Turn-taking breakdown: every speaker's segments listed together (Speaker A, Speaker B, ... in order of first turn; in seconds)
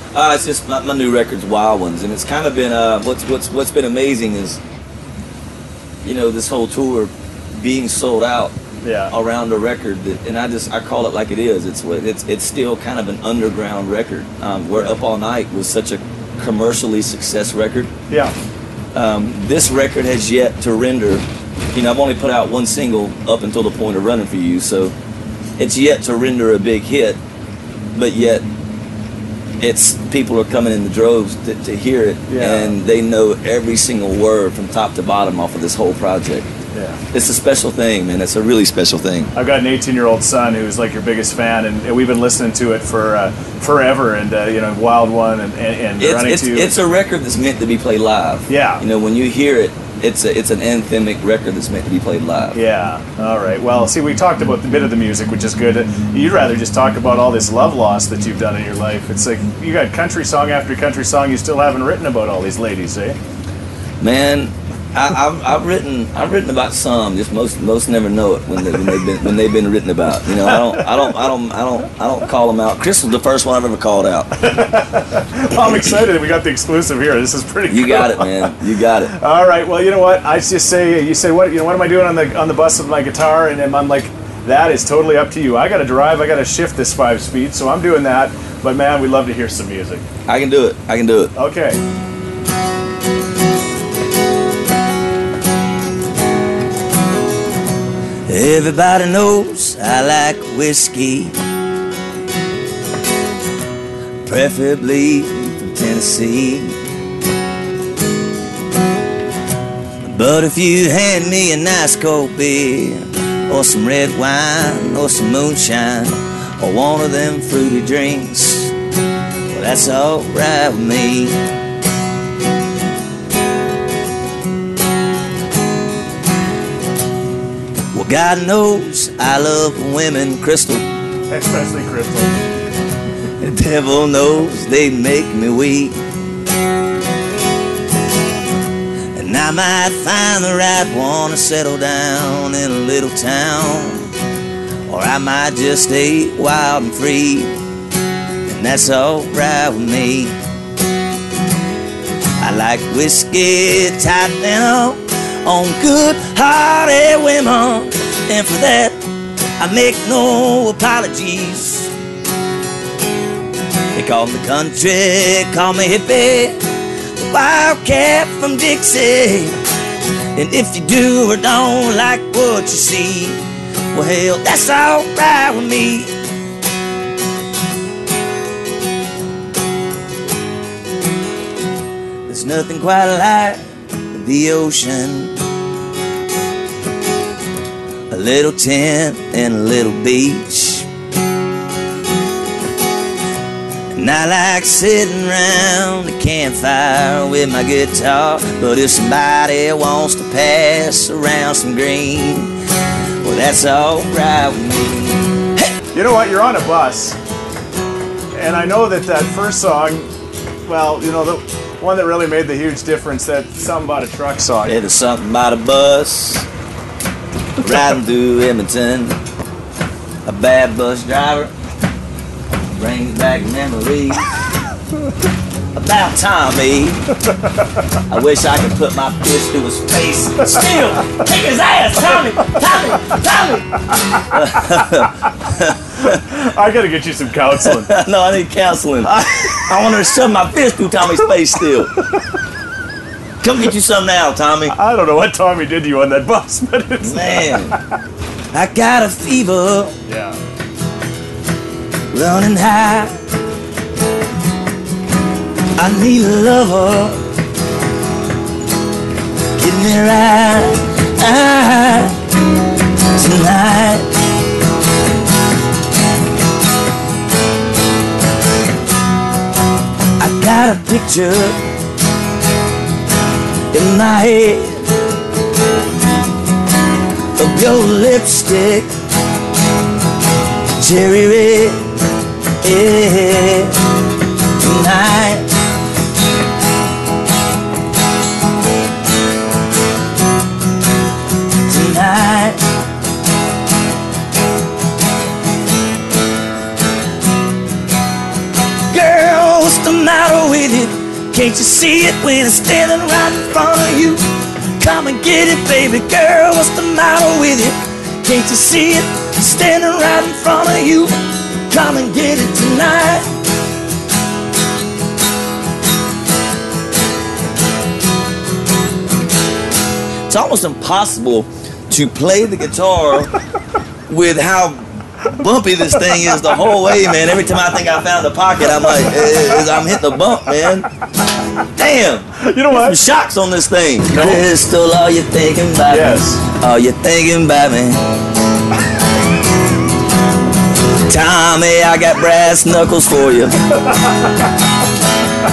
Speaker A: 0.1-4.6, 6.0-8.5, 9.1-17.9, 18.9-24.9, 25.6-27.2, 27.9-28.4, 29.6-36.5, 37.1-39.3, 46.0-52.6, 64.0-74.3, 77.7-79.1, 90.3-91.3, 98.3-101.3, 104.2-106.8, 110.0-118.7, 119.5-121.4, 127.9-130.8, 133.4-136.0, 139.1-144.1, 144.9-147.5, 148.5-150.3, 152.4-159.0, 159.6-161.9, 163.9-166.6, 167.2-169.6, 170.3-173.4, 173.9-176.1, 182.3-183.6, 184.1-185.3, 188.1-190.9, 193.9-202.5, 203.2-205.7, 214.6-216.5, 217.6-219.2, 220.2-221.5, 222.7-224.3, 225.7-227.0, 228.1-236.2, 237.6-241.9, 243.4-244.7, 247.0-247.8, 248.5-250.0, 252.1-253.2, 255.8-257.2, 259.5-262.1, 263.1-264.1, 270.2-271.6, 273.7-274.8, 277.4-278.9, 280.8-281.8, 282.6-283.8, 284.6-285.5, 291.6-292.6, 298.9-311.1, 311.7-313.3, 320.3-323.3, 324.1-330.9, 331.6-338.0, 341.1-343.7
Speaker B: 8.8-9.1, 32.3-32.7, 36.7-37.0, 39.3-46.7, 48.5-48.8, 52.5-63.2, 70.4-71.1, 74.4-78.6, 79.1-90.0, 91.3-91.8, 131.3-132.4, 205.9-207.2, 208.3-210.1, 210.6-214.8, 233.9-234.3, 236.0-237.9, 239.0-240.0, 244.7-247.8, 250.1-250.4, 325.9-326.4, 328.7-329.1, 332.4-333.0, 334.1-334.5, 335.9-336.4